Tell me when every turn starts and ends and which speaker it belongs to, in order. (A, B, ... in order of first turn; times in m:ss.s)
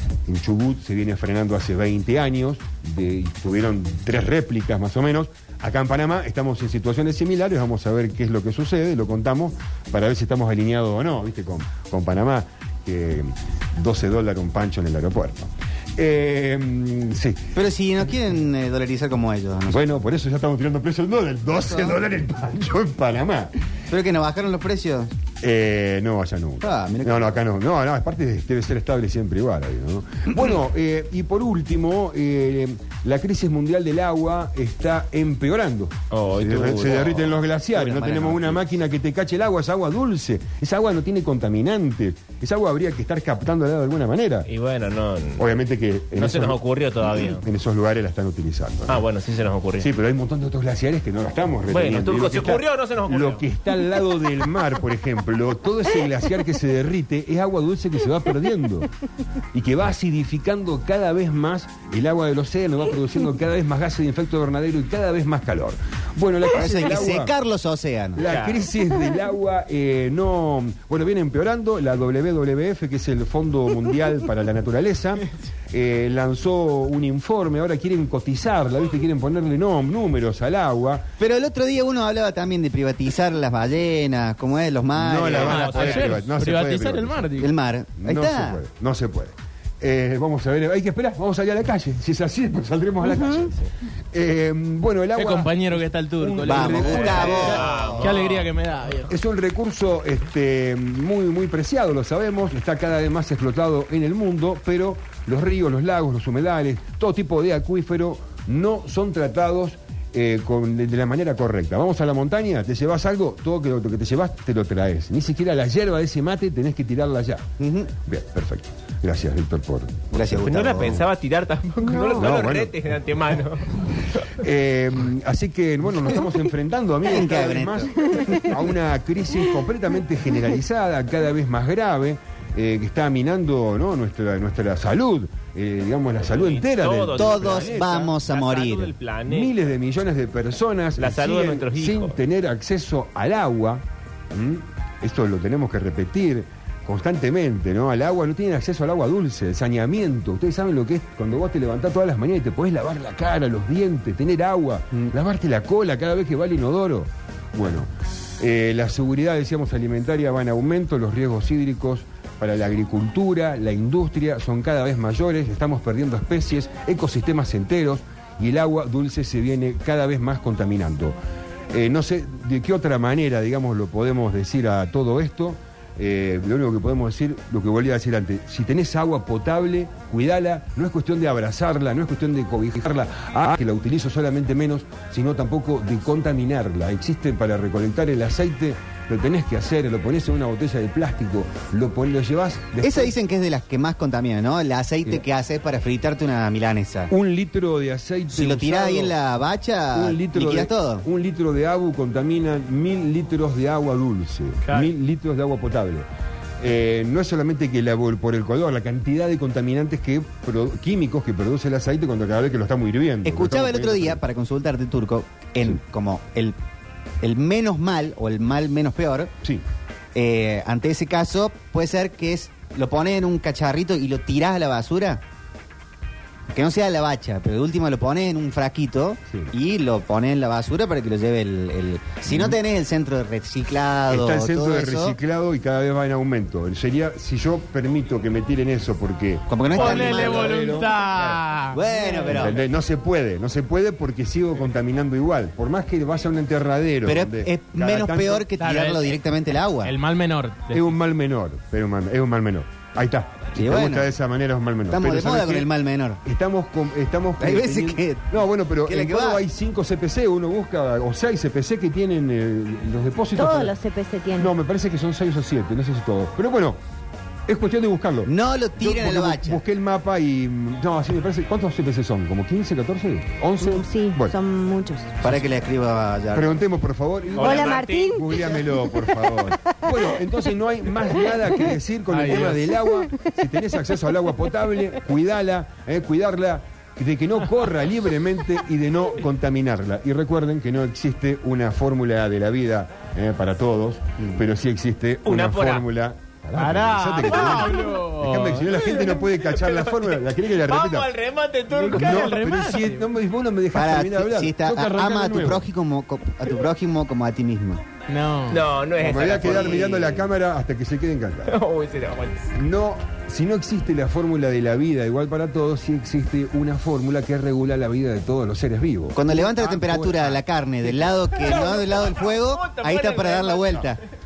0:00.3-0:17.4 A
0:17.5-0:19.8 B
0:19.7-0:23.5 A
0:21.5-0:22.0 B
0:23.9-0:25.1 B
0:25.4-0:44.5 A
0:26.6-0:27.4 B
0:36.1-0:37.4 C
0:37.7-0:38.8 B
0:44.4-0:45.4 C
0:45.4-0:49.0 A
0:46.1-0:47.4 C
0:48.9-0:49.9 C
0:49.8-0:58.9 A
0:51.7-0:53.4 C
0:59.5-1:07.3 A
1:06.5-1:08.2 B
1:08.1-1:21.1 A
1:08.2-1:08.7 C
1:21.2-1:25.9 B
1:24.9-1:27.3 A
1:25.3-1:26.2 C
1:25.4-1:27.5 D
1:27.4-1:28.6 B
1:28.0-1:33.6 A
1:33.1-1:33.4 E
1:34.1-1:37.6 A
1:35.2-1:39.1 D
1:36.4-1:38.1 B
1:36.8-1:38.5 C
1:39.1-1:57.5 A
1:57.6-1:57.9 B
1:58.0-2:01.0 A
2:00.1-2:01.0 B
2:00.4-2:03.6 C
2:02.1-2:02.8 A
2:04.4-2:18.0 A
2:07.0-2:07.9 B
2:16.2-2:19.5 C
2:17.1-2:18.9 B
2:19.3-2:51.2 A
2:21.0-2:22.2 C
2:51.7-3:13.1 A
3:12.8-3:17.1 B
3:17.1-3:19.1 A
3:18.3-3:21.0 B
3:19.9-3:26.1 A
3:24.6-3:24.9 D
3:26.6-3:34.2 A
3:33.2-3:36.6 B
3:37.2-3:39.3 B
3:40.1-3:45.2 B
3:46.5-3:55.2 B
3:52.2-3:52.6 A
3:54.1-4:01.4 A
3:59.5-4:00.6 B
3:59.7-4:02.5 D
4:01.7-4:02.6 B
4:02.2-4:08.5 A
4:07.0-4:09.9 B
4:08.5-4:09.2 D
4:09.8-4:10.9 D
4:10.7-4:15.7 A
4:13.5-4:14.1 B
4:14.9-4:16.2 B
4:16.2-4:23.7 A
4:17.4-4:19.4 B
4:23.4-4:24.5 E
4:24.3-4:26.8 A
4:27.5-4:34.4 A
4:28.2-4:29.6 B
4:33.6-4:35.1 E
4:35.2-4:36.5 B
4:36.3-5:01.1 A
4:37.3-4:38.2 C
4:37.4-4:40.0 E
4:42.1-4:42.6 D
4:55.2-4:55.8 C
4:56.6-4:58.6 D
4:57.3-4:57.8 C
4:59.0-5:02.4 C
5:01.7-5:03.0 D
5:01.9-5:05.7 A
5:03.7-5:07.8 B
5:08.1-5:08.6 D
5:08.5-5:10.3 C
5:09.0-5:11.6 A
5:09.4-5:09.8 B
5:11.5-5:12.5 C
5:12.5-5:21.1 A
5:19.1-5:24.0 B
5:21.4-5:23.9 C